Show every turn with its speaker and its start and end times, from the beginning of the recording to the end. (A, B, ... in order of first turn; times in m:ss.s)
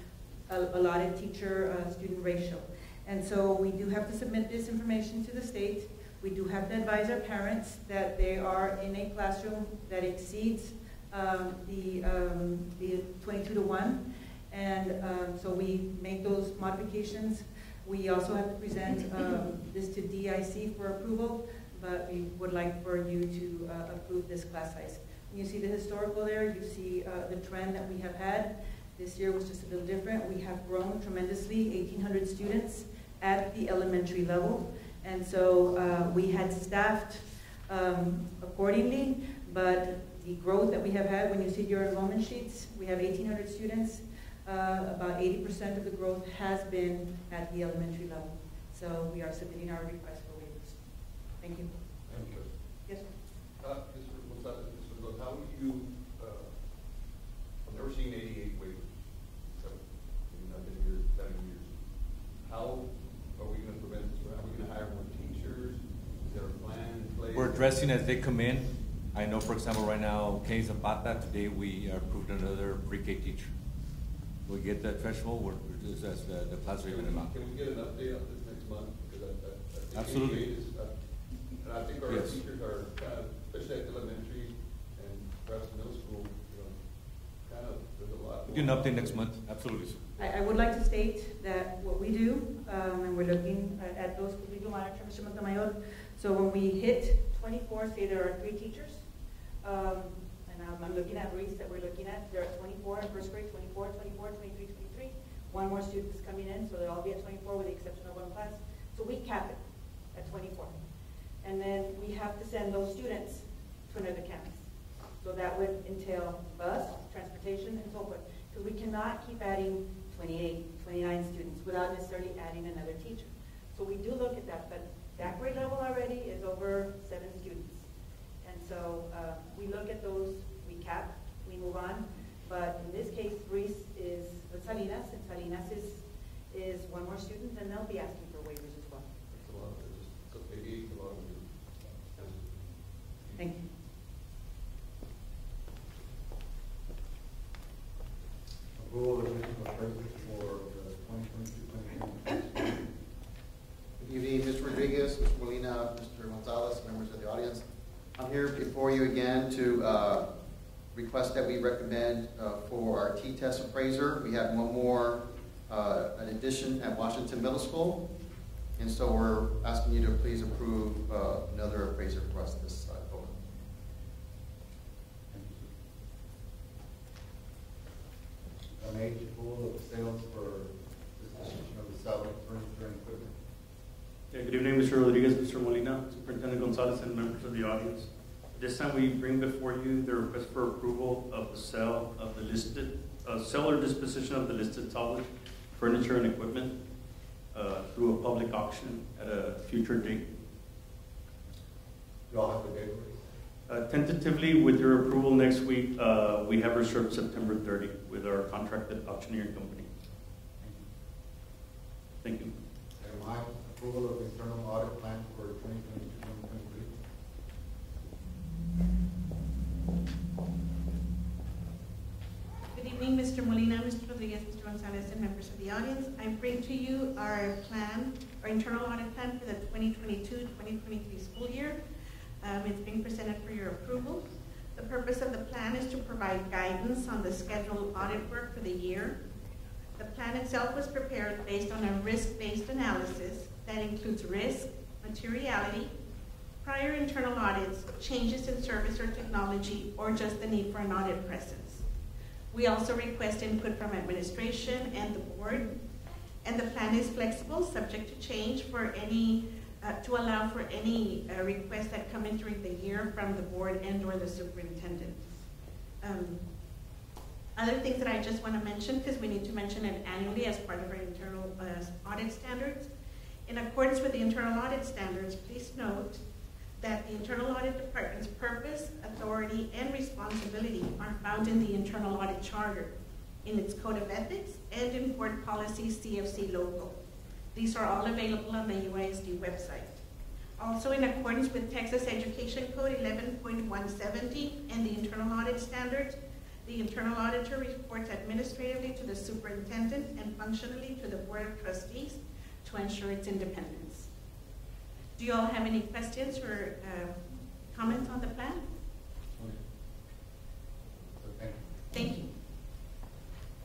0:00.5-0:50.8 A
0:51.4-0:51.7 A
0:52.1-0:52.5 B
0:53.6-0:56.5 B
0:57.6-0:58.9 B
0:59.4-1:01.7 B
1:02.4-1:07.8 B
1:07.3-1:13.5 C
1:14.4-1:17.3 C
1:16.8-1:20.9 B
1:19.9-1:20.5 C
1:21.5-1:26.8 B
1:22.1-1:22.4 C
1:27.4-1:29.3 B
1:28.5-1:30.0 C
1:30.2-1:39.0 A
1:39.6-1:49.6 A
1:50.1-1:50.7 A
1:51.4-1:54.6 A
1:55.2-2:07.8 A
2:08.4-2:19.1 A
2:19.3-2:21.5 B
2:22.0-2:22.5 B
2:28.8-2:32.9 D
2:34.0-2:37.6 E
2:38.2-2:40.3 E
2:40.9-2:48.0 E
2:48.8-2:53.3 E
2:55.3-2:55.7 D
2:58.8-3:03.4 D
3:04.3-3:16.8 F
3:17.5-3:20.3 F
3:22.3-3:23.2 D
3:23.7-3:29.9 F
3:30.6-3:30.8 D
3:32.2-3:32.5 F
3:33.0-3:36.9 D
3:42.7-3:51.8 G
3:52.4-3:59.2 G
4:00.0-4:05.9 G
4:06.6-4:11.8 G
4:12.5-4:15.8 G
4:16.4-4:25.3 G
4:26.0-4:26.4 G
4:27.6-4:32.9 G
4:33.5-4:36.2 G
4:36.8-4:42.9 G
4:43.4-4:47.0 G
4:47.5-4:49.9 G
4:50.6-5:04.1 G
5:05.2-5:08.6 G
5:09.4-5:09.6 D
5:11.2-5:11.8 D
5:11.9-5:12.3 G